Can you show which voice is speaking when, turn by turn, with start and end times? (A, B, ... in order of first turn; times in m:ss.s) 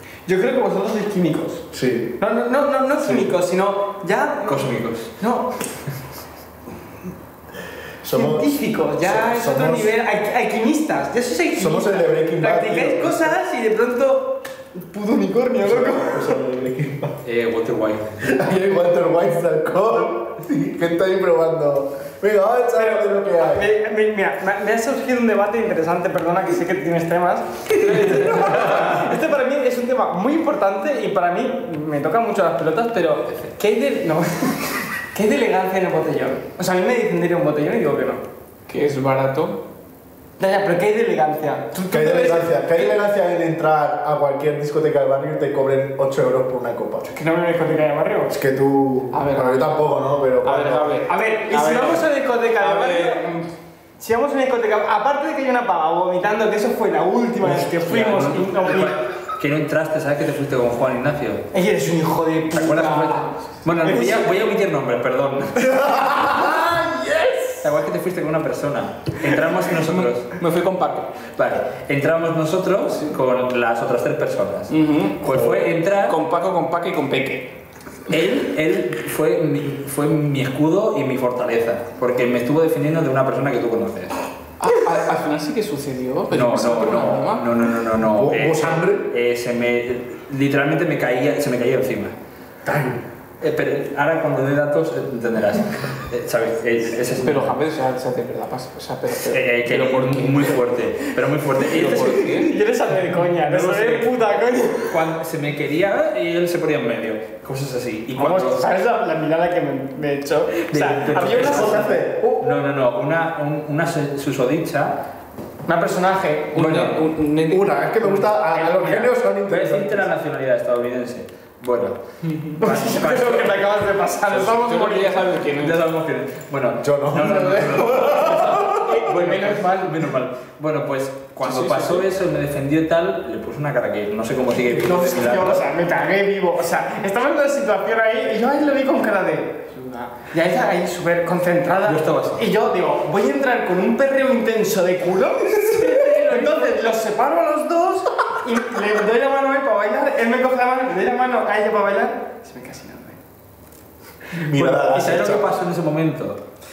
0:00.2-0:01.6 A
0:01.7-0:02.2 B
0:02.2-0:05.5 A
0:03.0-0:03.3 B
0:04.4-0:05.1 C
0:08.0-0:09.9 B
0:08.1-0:16.4 A
0:11.5-0:13.4 B
0:15.6-0:17.2 B
0:17.2-0:18.2 C
0:18.2-0:23.7 B
0:22.7-0:38.2 A
0:27.8-0:29.1 C
0:38.7-0:39.6 D
0:40.4-0:42.9 A
0:41.9-0:47.1 B
0:47.0-0:48.3 A
0:48.3-0:50.9 B
0:49.1-0:49.8 D
0:50.4-0:52.0 D
0:51.1-0:53.2 A
0:52.6-0:53.4 D
0:54.0-0:59.0 A
0:57.4-1:01.5 C
1:01.5-1:03.3 A
1:02.5-1:05.8 C
1:03.8-1:04.3 A
1:05.6-1:07.6 B
1:07.6-1:10.3 C
1:10.3-1:11.1 D
1:11.4-1:16.2 C
1:14.7-1:15.3 D
1:16.0-1:17.5 D
1:18.1-1:24.1 C
1:24.6-1:27.4 D
1:26.3-1:32.1 C
1:28.0-1:29.1 B
1:32.6-1:33.0 B
1:33.4-1:37.6 C
1:37.2-1:40.6 D
1:39.2-1:42.4 C
1:41.6-1:42.5 D
1:41.7-1:44.9 A
1:43.4-1:44.1 C
1:44.9-1:48.6 C
1:48.2-1:52.0 A
1:50.7-1:51.9 C
1:51.2-1:52.6 B
1:52.4-1:55.0 C
1:55.6-1:56.6 A
1:56.5-1:58.2 D
1:56.5-1:57.1 C
1:57.5-2:00.1 B
1:58.4-1:59.1 A
1:59.5-2:02.0 C
2:02.3-2:02.6 D
2:02.5-2:03.7 C
2:02.6-2:05.2 A
2:04.3-2:05.8 D
2:05.6-2:15.6 C
2:06.8-2:08.9 B
2:08.7-2:10.1 A
2:11.4-2:12.0 D
2:14.6-2:15.2 B
2:15.0-2:33.2 A
2:21.8-2:22.4 C
2:25.9-2:26.7 C
2:34.3-2:35.5 B
2:34.5-2:36.4 C